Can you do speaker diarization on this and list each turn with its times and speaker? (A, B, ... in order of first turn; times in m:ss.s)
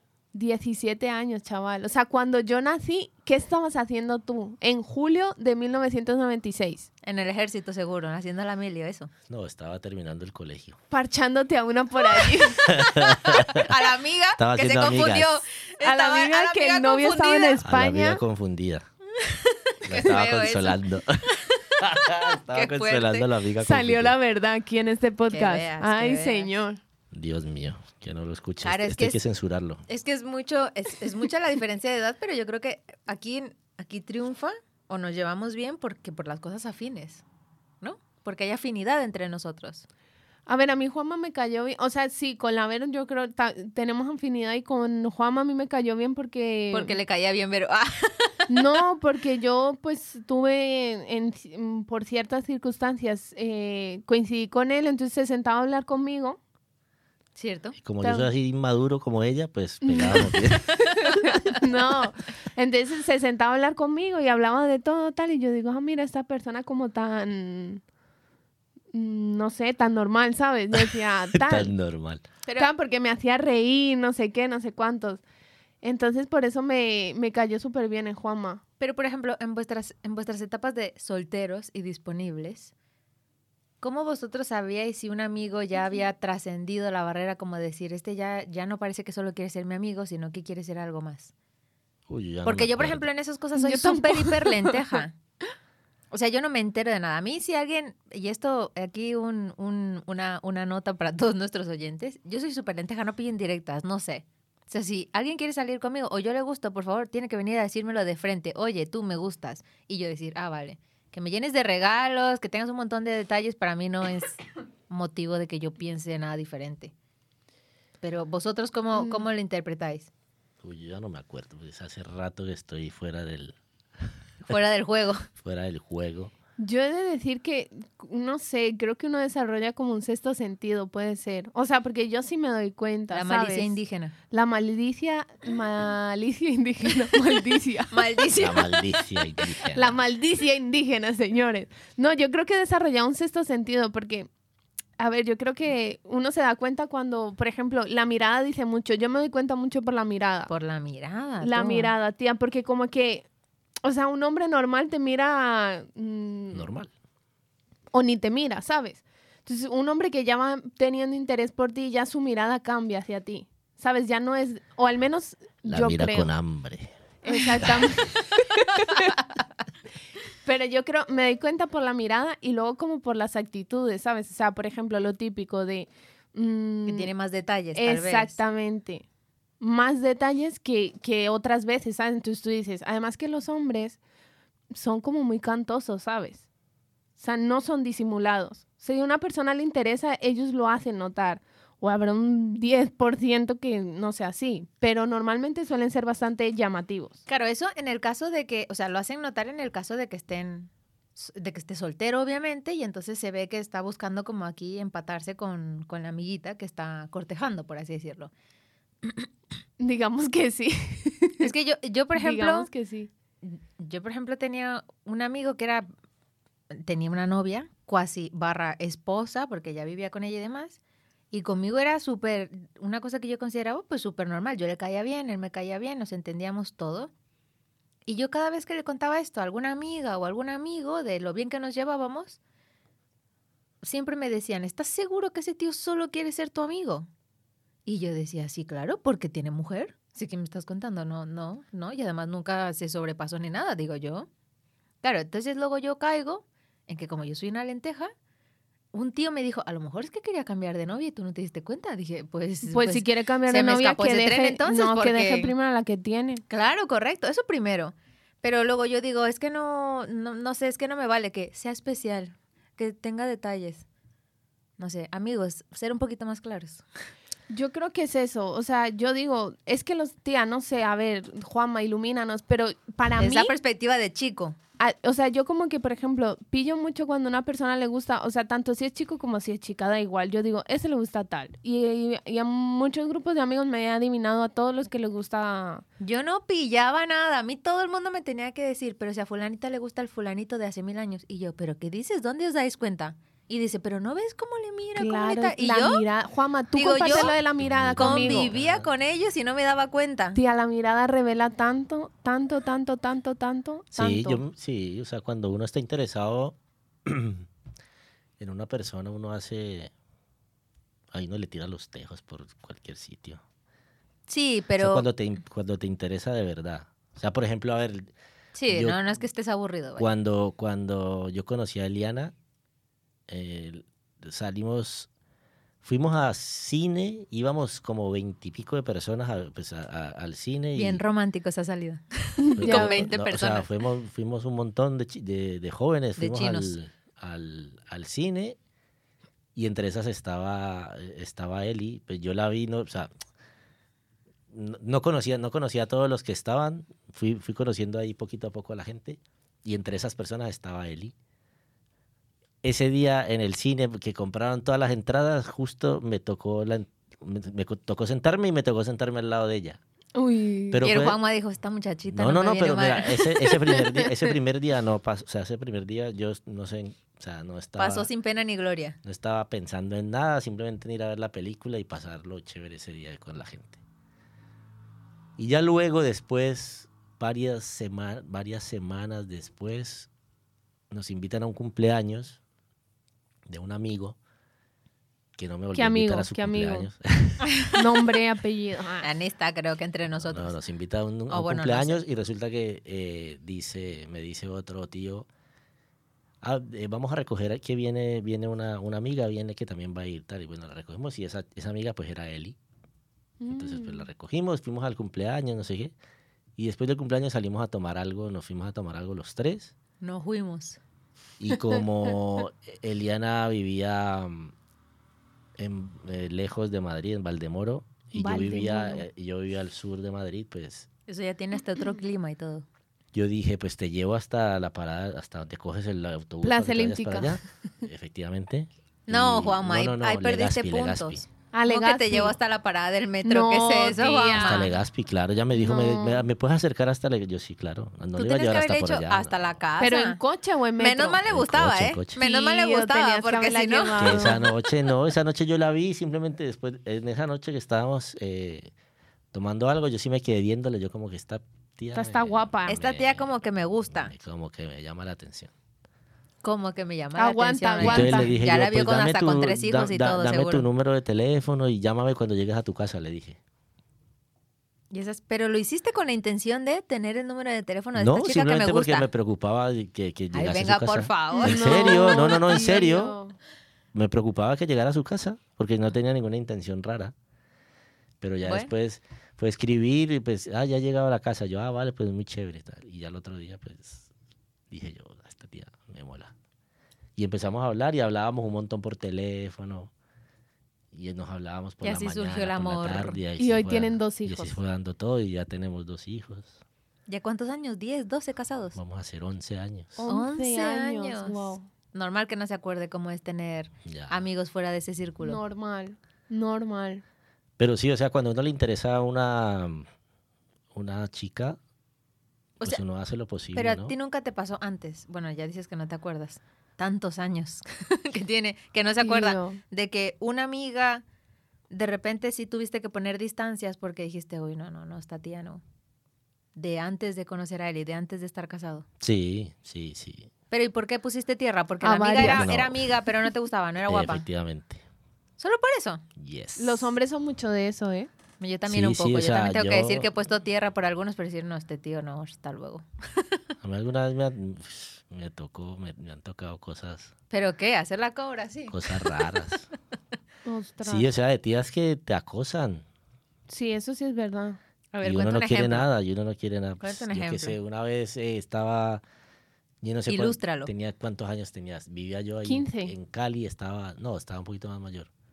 0:00.3-0:06.9 A
0:07.0-0:09.1 B
0:09.3-0:10.8 C
0:10.9-0:12.8 A
0:12.6-0:17.6 B
0:12.7-0:13.7 C
0:14.4-0:15.4 C
0:15.8-0:18.2 A
0:17.6-0:18.8 C
0:19.2-0:23.3 B
0:19.8-0:24.1 C
0:23.6-0:26.8 A
0:25.3-0:26.5 B
0:27.1-0:29.8 C
0:28.6-0:29.2 B
0:29.9-0:37.2 B
0:37.8-0:39.8 B
0:40.5-0:47.0 A
0:46.7-0:48.5 B
0:48.5-0:56.4 A
0:57.3-0:57.8 B
0:57.8-1:00.7 C
0:58.0-0:58.3 A
0:59.8-1:07.8 A
1:00.7-1:01.6 B
1:08.9-1:11.7 A
1:10.7-1:12.2 C
1:12.6-1:15.2 A
1:15.8-1:18.6 A
1:18.8-1:22.7 B
1:23.8-1:31.3 B
1:32.1-1:33.1 C
1:32.4-1:35.2 B
1:33.6-1:35.0 A
1:36.1-1:56.9 B
1:58.0-2:00.1 B
1:58.9-1:59.2 A
2:00.6-2:03.6 C
2:04.5-2:05.3 B
2:05.4-2:06.3 C
2:06.6-2:13.8 A
2:13.1-2:14.1 B
2:14.3-2:18.0 A
2:17.9-2:18.7 B
2:18.3-2:20.0 C
2:19.7-2:24.3 A
2:25.0-2:30.5 A
2:30.5-2:31.9 B
2:31.4-2:33.2 A
2:33.8-2:36.7 A
2:36.5-2:36.9 C
2:37.9-2:46.3 A
2:45.6-2:47.0 C
2:47.2-2:49.1 A
2:48.5-2:49.2 B
2:50.4-2:57.1 A
2:56.8-2:58.4 B
2:57.7-2:59.0 A
2:59.6-3:04.0 A
3:04.7-3:06.4 A
3:07.2-3:17.2 A
3:17.3-3:28.3 B
3:29.8-3:31.5 A
3:31.4-3:32.7 B
3:32.1-3:33.1 A
3:33.4-3:35.9 B
3:36.7-3:40.8 B
3:41.3-3:47.1 B
3:48.0-3:52.4 B
3:53.8-3:57.1 B
3:57.8-4:04.3 B
4:05.0-4:08.1 B
4:08.9-4:15.5 B
4:12.6-4:16.4 A
4:16.5-4:23.8 B
4:24.8-4:26.8 B
4:27.5-4:33.5 A
4:33.2-4:34.6 B
4:34.8-4:45.8 A
4:46.0-4:56.0 B
4:55.0-4:58.5 A
4:56.7-4:57.3 B
4:57.1-4:58.9 C
4:58.0-5:00.4 B
5:00.3-5:04.4 A
5:03.9-5:07.5 C
5:08.4-5:09.9 C
5:11.1-5:13.4 C
5:14.3-5:15.0 B
5:14.8-5:18.1 C
5:18.5-5:20.1 B
5:18.7-5:19.0 C
5:20.0-5:22.3 C
5:23.3-5:25.1 C
5:25.8-5:31.0 C
5:30.7-5:33.7 B
5:32.4-5:33.1 A
5:32.6-5:38.6 C
5:36.2-5:36.7 B
5:39.5-5:43.1 C
5:44.5-5:51.1 C
5:52.6-5:59.8 C
6:00.1-6:00.9 A
6:00.7-6:01.2 C
6:00.8-6:03.4 B
6:02.1-6:08.1 C
6:03.9-6:04.2 A
6:07.8-6:09.0 B
6:09.0-6:13.8 C
6:15.4-6:20.1 C
6:20.9-6:22.4 C
6:23.4-6:24.2 C
6:25.4-6:27.5 C
6:25.7-6:26.9 A
6:27.7-6:29.1 A
6:29.0-6:30.5 B
6:30.2-6:35.3 C
6:31.3-6:32.0 B
6:36.4-6:42.6 C
6:43.4-6:44.1 A
6:43.5-6:45.9 C
6:46.6-6:49.7 C
6:50.0-6:50.8 B
6:51.4-6:54.5 C
6:55.6-7:00.9 C
6:58.1-6:59.0 A
7:01.1-7:02.6 B
7:03.1-7:11.2 C
7:06.4-7:07.4 A
7:09.1-7:14.7 B
7:11.5-7:12.3 A
7:13.2-7:14.7 A
7:14.4-7:19.6 C
7:15.5-7:16.2 A
7:18.2-7:20.2 B
7:19.8-7:21.2 A
7:20.8-7:24.4 B
7:21.2-7:22.1 C
7:22.2-7:24.5 A
7:24.0-7:28.7 C
7:29.3-7:33.3 C
7:31.9-7:32.8 A
7:32.7-7:34.1 B
7:33.9-7:35.5 C
7:36.4-7:40.7 B
7:37.2-7:38.3 A
7:37.8-7:43.4 C
7:44.9-7:49.1 B
7:47.9-7:53.2 C
7:50.3-7:52.3 B
7:51.3-7:53.3 A
7:53.9-7:57.1 C
7:58.2-8:04.1 C
7:58.4-7:58.7 B
8:04.7-8:06.3 C
8:07.2-8:09.9 C
8:10.9-8:16.6 C
8:11.8-8:13.2 B
8:13.4-8:14.6 A
8:17.1-8:18.8 B
8:18.7-8:20.0 C
8:20.0-8:21.6 A
8:20.1-8:25.4 B
8:23.8-8:24.2 C
8:25.2-8:27.0 A
8:27.6-8:29.9 C
8:30.7-8:31.6 C
8:32.6-8:33.9 C
8:33.5-8:41.0 B
8:39.0-8:39.6 A
8:41.7-8:45.6 B
8:46.6-8:48.8 B
8:49.0-8:50.3 C
8:50.5-8:54.2 B
8:51.8-8:52.5 A
8:52.2-8:52.9 C
8:53.9-8:54.8 C
8:55.4-8:56.0 B
8:56.2-8:56.9 C
8:56.6-8:58.1 A
8:58.4-9:03.4 B
8:58.7-9:00.1 C
9:03.6-9:07.1 C
9:07.3-9:09.2 B
9:08.7-9:09.7 C
9:10.4-9:11.1 A
9:10.8-9:12.8 C
9:13.5-9:14.6 A
9:14.9-9:15.9 B
9:15.0-9:19.0 C
9:16.8-9:17.6 B
9:19.8-9:25.1 C
9:20.1-9:20.7 B
9:22.4-9:22.9 A